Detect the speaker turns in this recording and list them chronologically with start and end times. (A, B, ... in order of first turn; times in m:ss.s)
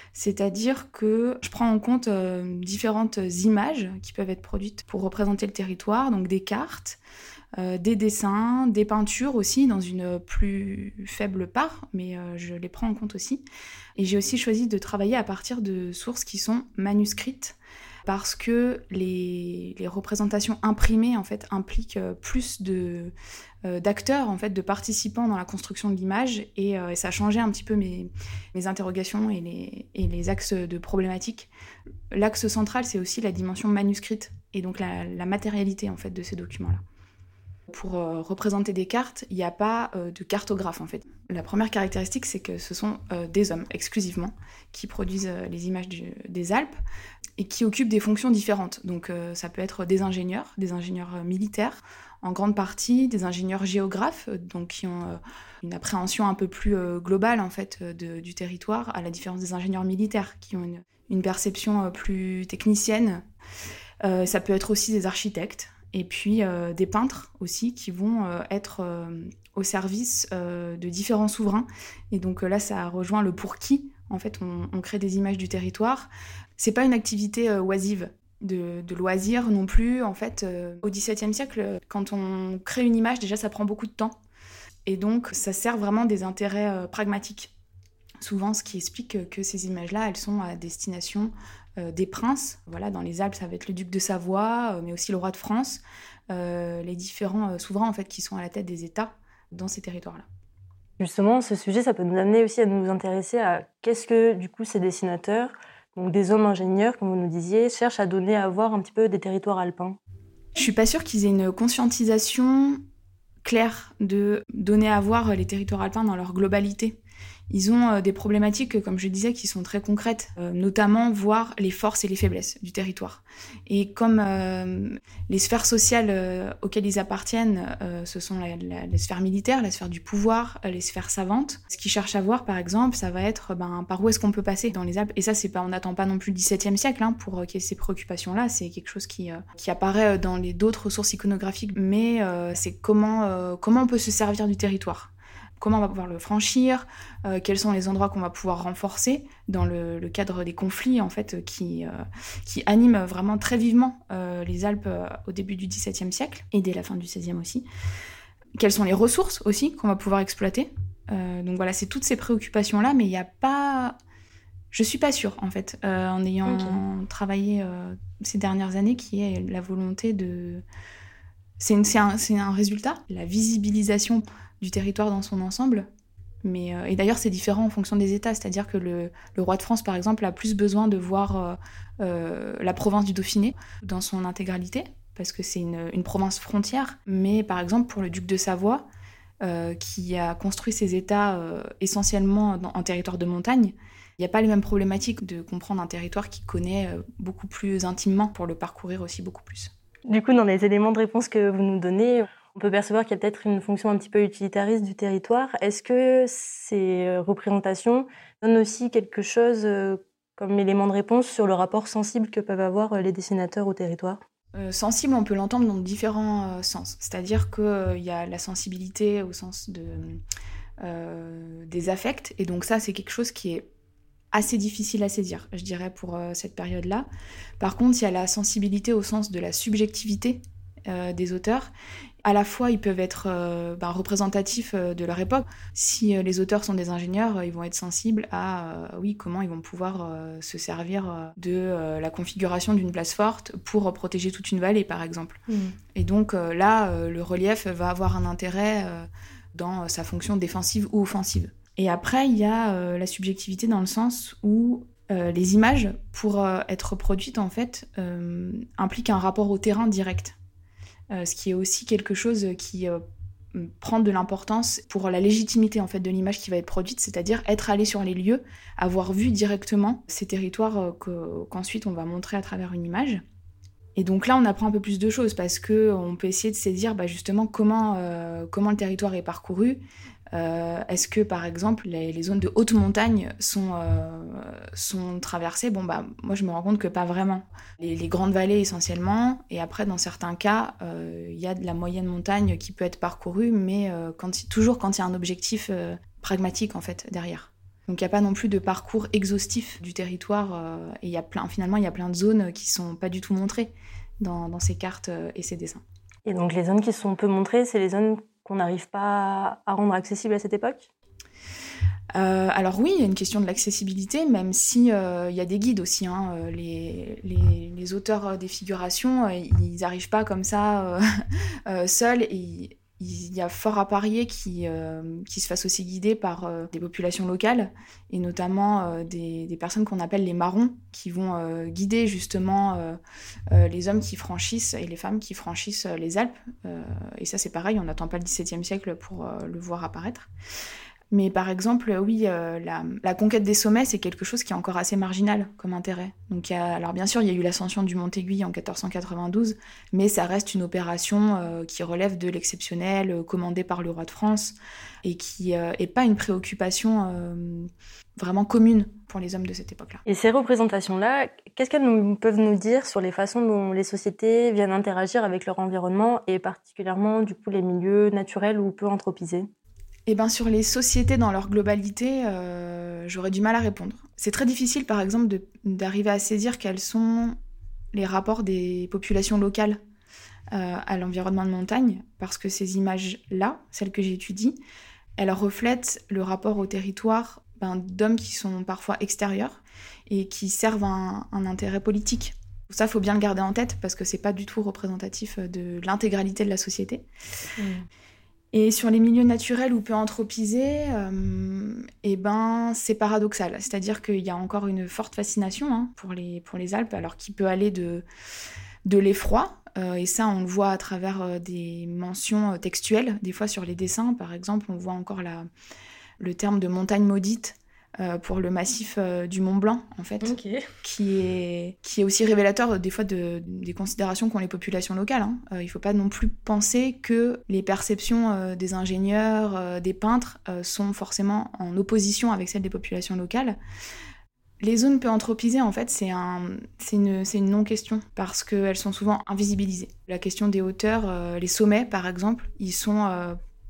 0:00.1-0:07.0 A
0:07.6-0:13.4 A
0:14.0-0:23.1 A
0:23.6-0:31.5 A
0:32.1-0:36.8 A
0:37.7-0:46.8 A
0:47.4-1:03.2 A
1:04.0-1:24.2 A
1:24.9-1:27.5 A
1:28.2-1:40.2 A
1:41.0-1:50.0 B
1:50.6-1:52.8 A
1:53.4-1:57.0 A
1:57.5-2:37.7 A
2:38.6-2:44.0 A
2:44.7-2:50.6 A
2:46.4-2:46.8 B
2:51.6-2:55.9 A
2:56.4-3:08.9 A
3:09.4-3:19.7 A
3:20.1-3:34.2 B
3:34.5-3:40.2 A
3:40.8-3:43.7 A
3:44.3-3:47.1 A
3:47.6-3:51.7 A
3:52.2-4:05.4 A
4:05.5-4:05.8 B
4:05.9-4:20.4 A
4:21.1-4:23.0 A
4:23.5-4:33.2 A
4:34.0-5:05.8 A
5:06.3-5:10.9 B
5:12.1-5:21.0 A
5:21.7-5:33.0 A
5:33.5-5:40.3 A
5:41.1-6:00.0 A
6:00.1-6:09.5 B
6:10.1-6:17.4 A
6:17.9-6:19.8 A
6:20.5-6:24.6 A
6:25.2-6:37.0 A
6:37.6-6:37.9 B
6:38.5-6:48.0 A
6:48.9-6:55.5 A
6:56.2-7:00.3 A
7:00.2-7:00.7 B
7:00.8-7:13.6 A
7:14.6-7:23.4 A